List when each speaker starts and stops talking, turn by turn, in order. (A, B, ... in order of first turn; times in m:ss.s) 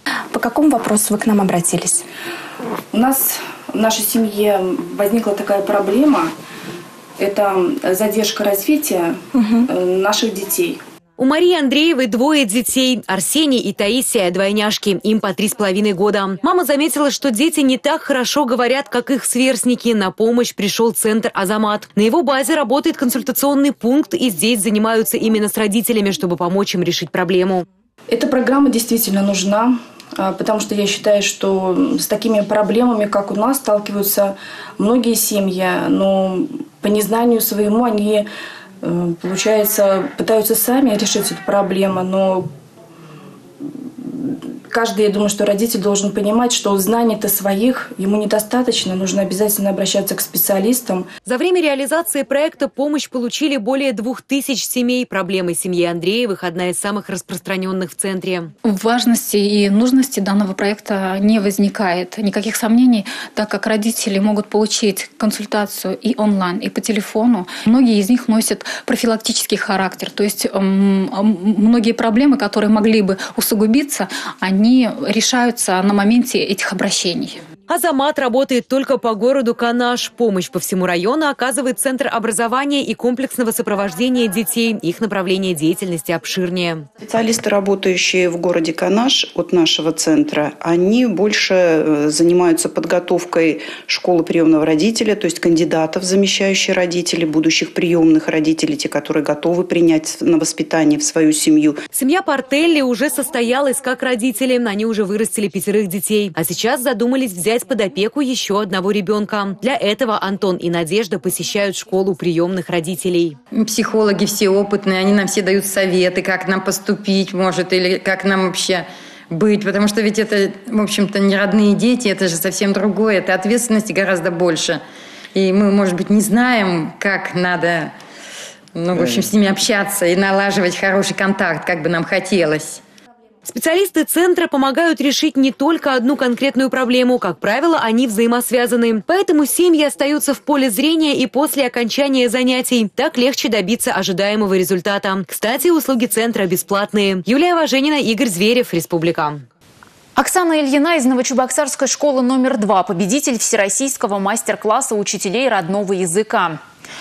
0:00.3-0:02.0 A
0:02.9-0:06.3 B
0:07.2-0:10.8 B
0:09.4-0:09.6 A
0:11.2-0:27.6 C
0:28.1-0:38.3 B
0:38.8-0:42.5 B
0:43.6-0:51.1 B
0:51.2-0:58.5 C
0:58.6-1:17.4 D
1:17.7-1:26.9 C
1:27.0-1:41.8 E
1:41.9-1:53.4 C
1:53.5-2:04.8 F
2:05.3-2:07.9 F
2:08.8-2:12.8 F
2:13.4-2:29.4 C
2:30.2-2:36.6 G